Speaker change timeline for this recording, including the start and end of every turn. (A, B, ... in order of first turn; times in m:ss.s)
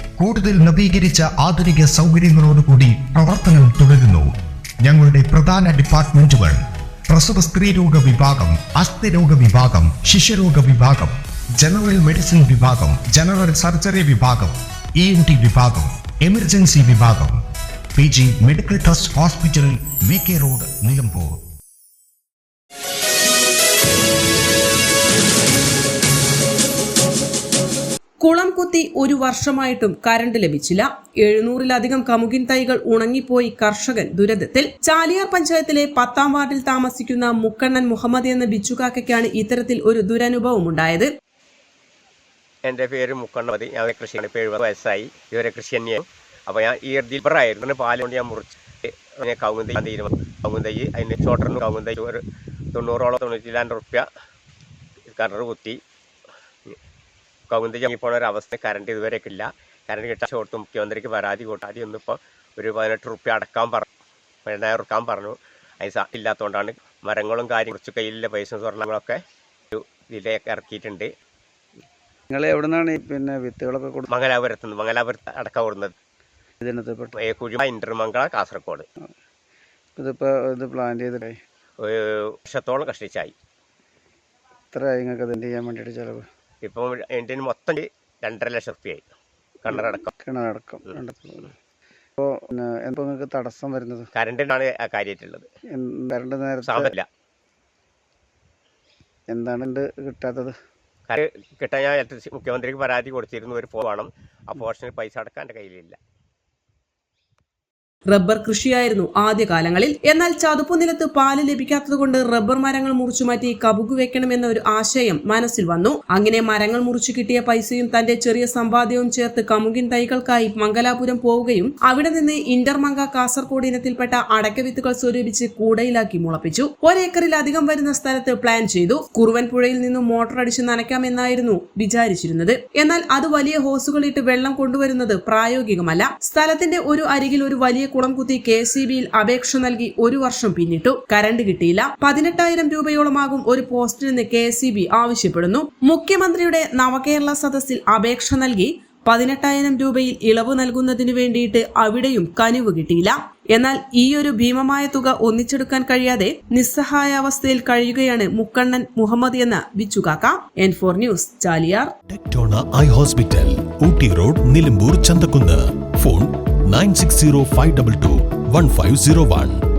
0:00.2-0:04.3 A
0:04.8-0:17.4 A
0:18.0-0:21.4 A
0:28.2-0:41.1 B
0:42.6-0:52.2 C
0:52.7-0:54.1 C
0:55.1-0:55.8 C
0:57.5-1:03.9 C
1:04.5-1:09.2 C
1:09.7-1:11.1 C
1:12.3-1:14.0 D
1:14.1-1:16.0 C
1:16.6-1:17.2 D
1:17.2-1:18.8 C
1:20.0-1:21.4 D
1:21.8-1:23.3 C
1:24.7-1:26.2 D
1:26.6-1:29.0 C
1:29.6-1:30.1 C
1:29.7-1:31.5 D
1:32.2-1:34.1 D
1:34.1-1:35.5 C
1:35.7-1:36.9 D
1:36.6-1:37.1 C
1:39.3-1:40.5 D
1:41.1-1:46.0 C
1:48.1-2:41.9 B
2:42.1-2:49.6 E